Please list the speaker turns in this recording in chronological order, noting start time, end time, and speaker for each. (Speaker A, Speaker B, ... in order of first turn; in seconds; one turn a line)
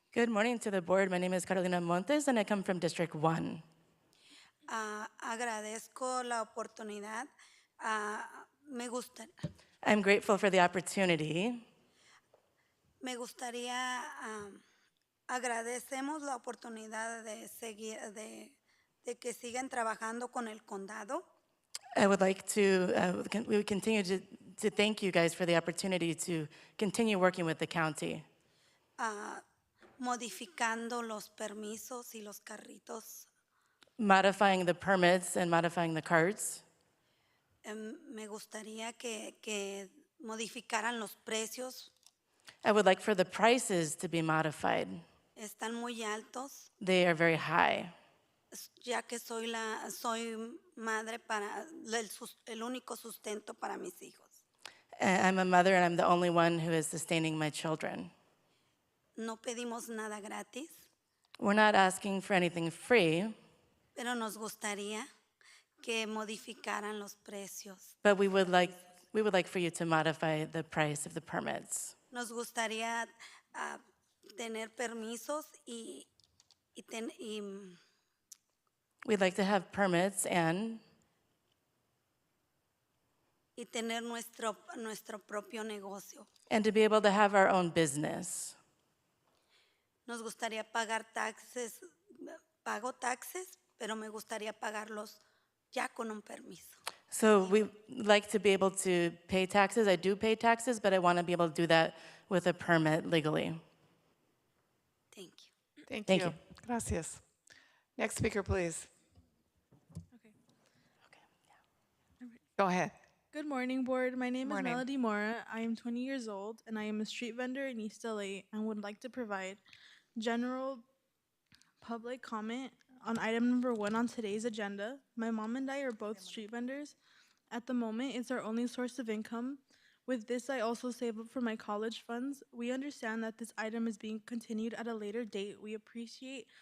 Speaker A: 0.1-3.6
Speaker B: 4.7-7.3
Speaker B: 7.8-9.3
Speaker A: 9.8-11.6
Speaker B: 13.0-14.6
Speaker B: 15.3-21.2
Speaker A: 21.9-28.2
Speaker B: 29.0-29.4
Speaker B: 30.0-33.3
Speaker A: 34.0-36.6
Speaker B: 37.6-41.9
Speaker A: 42.6-45.0
Speaker B: 45.4-46.7
Speaker A: 46.8-47.9
Speaker B: 48.5-54.4
Speaker A: 55.0-58.1
Speaker B: 59.2-60.9
Speaker A: 61.4-63.3
Speaker B: 64.0-65.1
Speaker B: 65.8-68.0
Speaker A: 68.0-71.9
Speaker B: 72.1-76.1
Speaker B: 76.8-77.8
Speaker A: 79.0-80.8
Speaker B: 83.5-86.3
Speaker A: 86.5-88.5
Speaker B: 90.1-96.8
Speaker A: 97.1-103.6
Speaker B: 105.1-105.5
Speaker C: 105.9-107.2
Speaker A: 106.1-106.3
Speaker C: 108.0-108.9
Speaker C: 112.6-112.9
Speaker D: 113.3-119.6
Speaker C: 114.4-114.8
Speaker D: 120.2-120.8
Speaker D: 121.8-127.0
Speaker D: 127.5-136.5